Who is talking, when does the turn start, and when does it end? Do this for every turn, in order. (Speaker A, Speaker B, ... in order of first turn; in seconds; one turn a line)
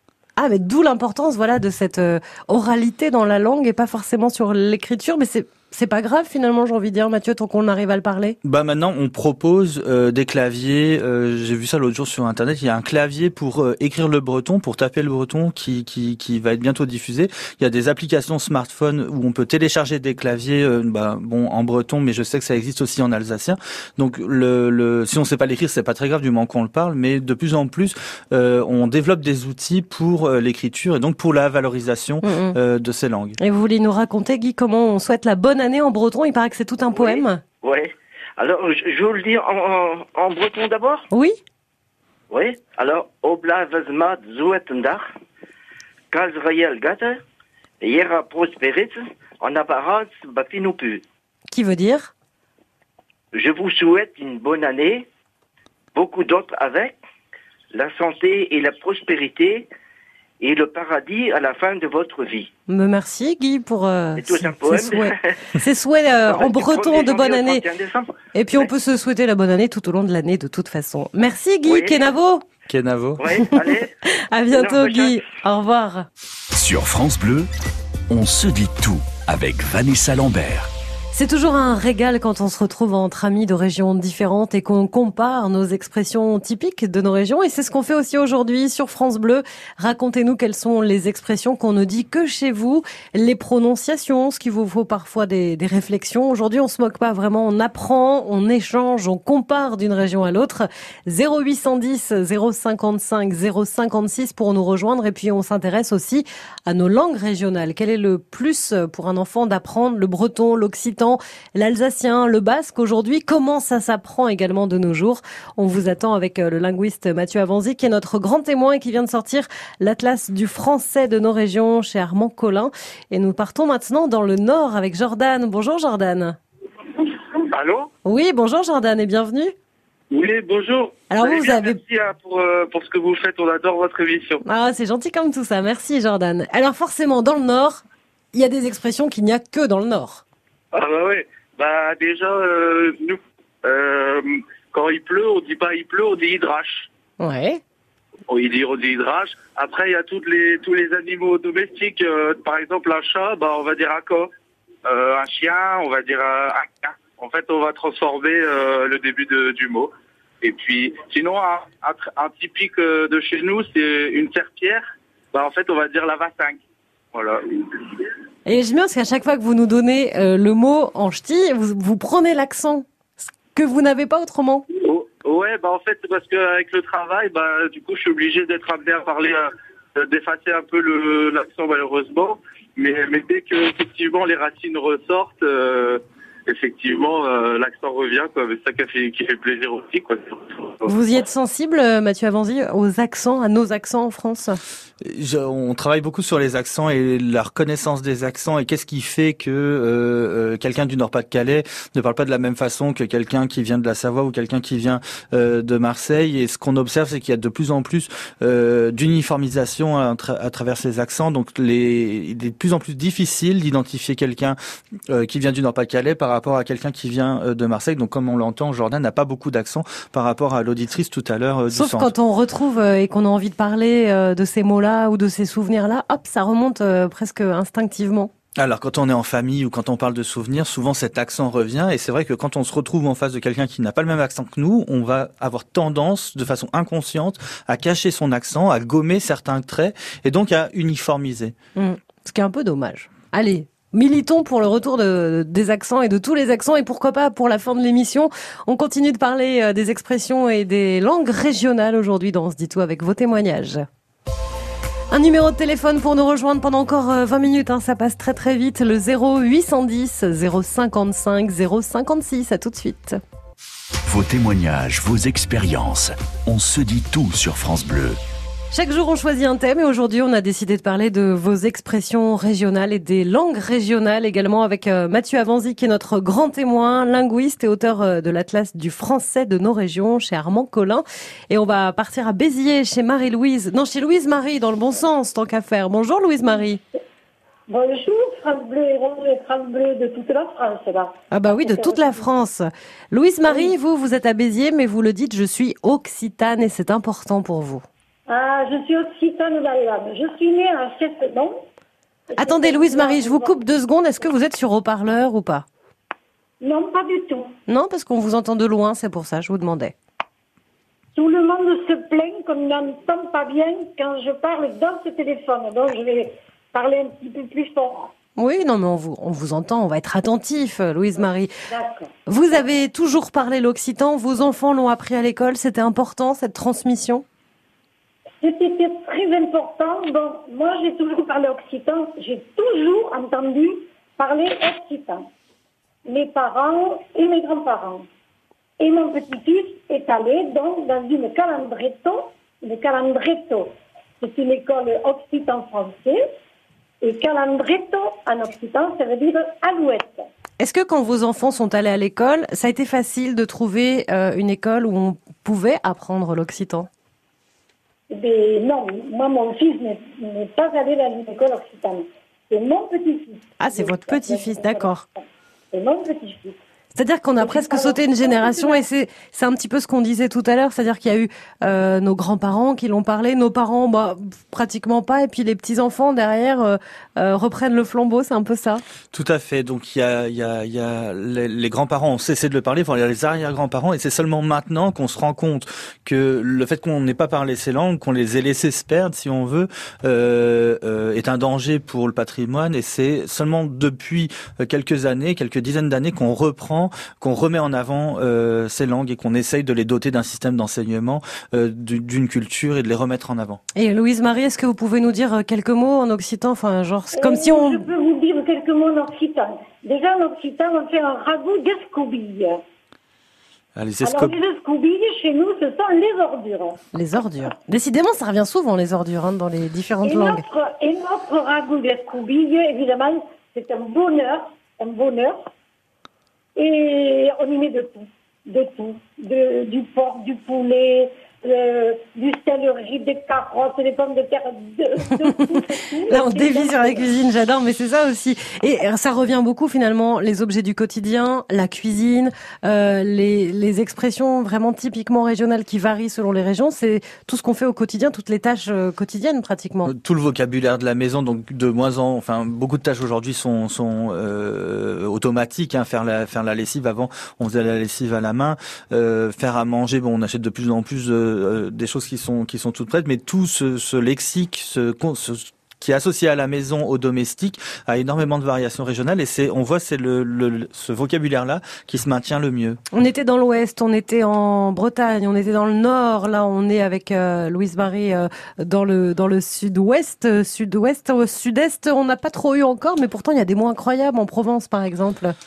Speaker A: 0.4-8.4
Speaker B: 8.4-33.4
Speaker A: 32.2-32.6
Speaker A: 33.4-37.4
Speaker C: 37.0-41.1
Speaker A: 41.1-41.4
Speaker C: 42.3-45.1
Speaker C: 46.1-47.2
Speaker C: 47.8-51.0
Speaker A: 51.5-52.1
Speaker C: 53.3-55.1
Speaker C: 56.0-57.0
Speaker C: 57.7-59.7
Speaker C: 60.4-62.5
Speaker A: 62.7-67.7
Speaker C: 64.2-65.4
Speaker C: 66.3-68.7
Speaker A: 68.3-72.4
Speaker C: 71.7-72.1
Speaker B: 72.7-73.2
Speaker C: 73.2-73.9
Speaker A: 73.4-73.7
Speaker A: 74.3-76.1
Speaker C: 74.5-75.2
Speaker D: 76.5-77.5
Speaker D: 78.1-80.7
Speaker A: 81.1-126.4
Speaker E: 127.5-127.9
Speaker A: 128.1-129.5
Speaker E: 130.1-134.4
Speaker A: 131.1-131.8
Speaker A: 134.4-140.2
Speaker E: 140.7-146.9
Speaker A: 147.2-147.6
Speaker E: 148.3-154.3
Speaker E: 154.9-166.6
Speaker E: 167.1-167.9
Speaker A: 168.5-172.9
Speaker A: 173.5-174.7
Speaker E: 174.8-190.9
Speaker A: 190.9-194.6
Speaker B: 195.0-214.6
Speaker B: 215.1-222.1
Speaker A: 221.7-228.3
Speaker B: 228.6-241.6
Speaker A: 241.8-253.9
Speaker A: 255.1-263.2
Speaker D: 264.1-268.2
Speaker A: 268.7-286.8
Speaker F: 287.7-292.1
Speaker A: 291.3-297.9
Speaker F: 293.5-293.7
Speaker F: 298.3-301.6
Speaker F: 302.3-303.6
Speaker A: 302.4-305.7
Speaker F: 306.6-307.5
Speaker A: 307.7-309.9
Speaker F: 311.1-318.1
Speaker A: 318.4-321.5
Speaker F: 321.7-322.6
Speaker A: 322.3-327.2
Speaker F: 328.4-335.3
Speaker F: 336.1-338.1
Speaker F: 338.8-346.2
Speaker F: 347.0-350.3
Speaker A: 350.6-356.9
Speaker F: 358.1-366.6
Speaker A: 363.6-365.0
Speaker A: 367.0-378.8
Speaker F: 367.4-368.8
Speaker B: 379.1-403.6
Speaker A: 403.8-407.8
Speaker F: 407.1-412.6
Speaker B: 413.8-414.3
Speaker F: 414.0-416.8
Speaker A: 416.9-420.4
Speaker F: 420.0-425.5
Speaker F: 426.6-437.1
Speaker A: 436.1-449.9
Speaker B: 449.9-472.8
Speaker A: 472.9-485.4